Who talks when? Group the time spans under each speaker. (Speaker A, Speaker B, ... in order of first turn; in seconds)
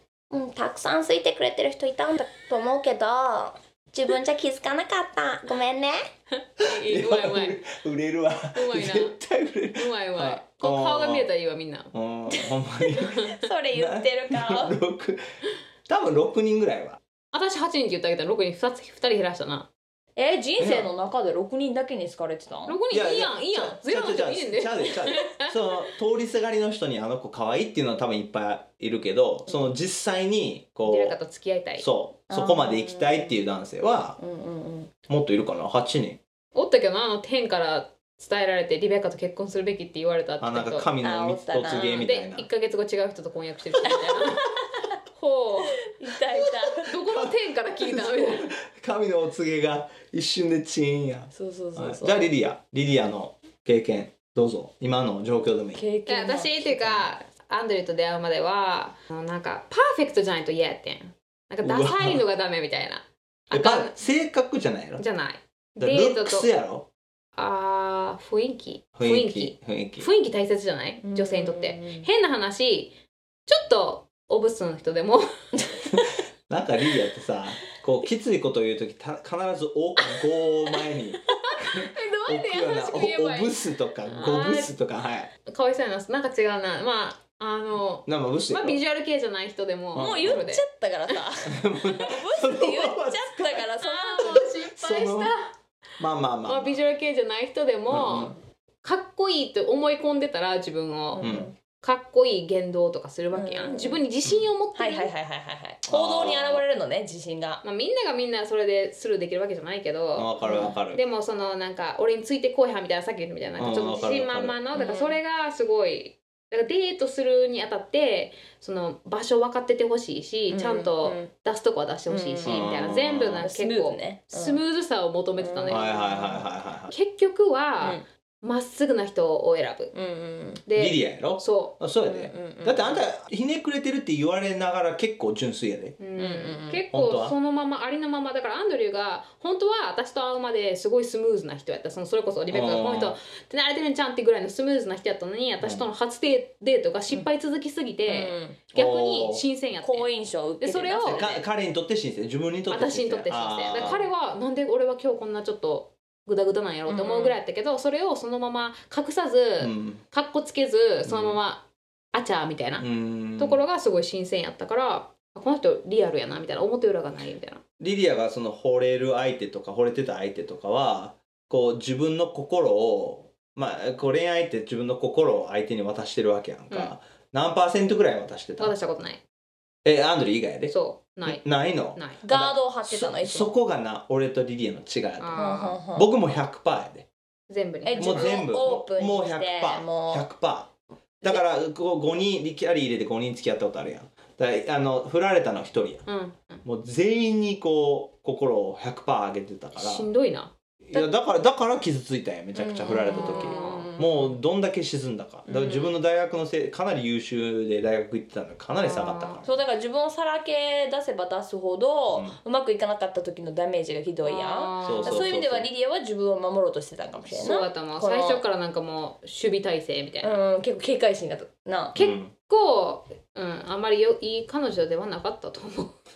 Speaker A: 0.3-6.1, 12.3-14.8, 20.2-22.8, 32.3-33.4, 34.2-34.9, 41.0-42.1, 43.8-44.9, 45.9-46.9, 51.3-52.3, 55.8-57.0, 71.0-72.1, 75.6-76.0, 90.0-94.5, 101.1-101.5, 103.3-104.0, 104.8-107.6, 110.4-110.8, 114.7-115.2, 120.5-121.3, 122.1-122.8, 123.4-124.6, 125.4-126.4, 129.9-130.6, 132.1-133.0, 136.2-136.8, 148.1-148.6, 149.8-151.4, 156.9-157.4, 182.2-183.6, 185.3-186.1, 187.8-190.3, 202.6-204.3, 209.4-218.4, 220.2-222.0
Speaker B: 6.4-7.6, 8.6-9.2, 9.8-11.9, 13.2-13.4, 17.3-19.7, 22.7-25.6, 30.9-31.9, 36.5-40.9, 41.7-44.6, 45.1-45.9, 46.7-48.5, 56.1-64.0, 65.0-66.5, 67.4-73.0, 73.5-75.3, 81.3-83.6, 84.1-84.7, 85.5-91.2, 93.8-95.5, 96.5-105.1, 107.6-126.0, 126.9-129.9, 130.7-131.8, 136.0-151.4, 152.7-167.6, 178.6-179.2, 180.7-182.2, 185.2-185.8, 187.5-188.4, 196.1-196.6, 199.8-200.5, 203.1-203.9, 205.5-205.9, 208.8-209.4, 214.2-215.3, 217.3-220.4, 222.0-226.0
Speaker C: 6.6-11.3, 11.9-15.2, 15.9-17.0, 20.6-20.9, 22.9-31.2, 31.8-34.2, 35.1-36.2, 40.4-42.5, 47.0-55.8, 61.6-62.2, 63.5-65.0, 65.8-66.9, 69.0-70.1, 75.9-85.3, 88.1-88.8, 89.9-90.5, 91.5-93.7, 94.7-95.3, 96.0-96.8, 97.9-98.3, 101.2-101.5, 105.9-106.6, 110.2-111.0, 113.6-114.6, 122.4-123.5, 125.7-126.9, 130.8-136.0, 136.9-137.4, 142.5-143.2, 145.6-145.9, 148.7-149.4, 151.1-154.1, 159.6-160.0, 161.1-161.4, 162.8-163.6, 167.8-178.8, 179.8-187.1, 188.0-190.7, 191.2-196.1, 196.7-200.1, 200.9-209.5, 212.1-212.4, 214.8-215.7, 222.0-222.3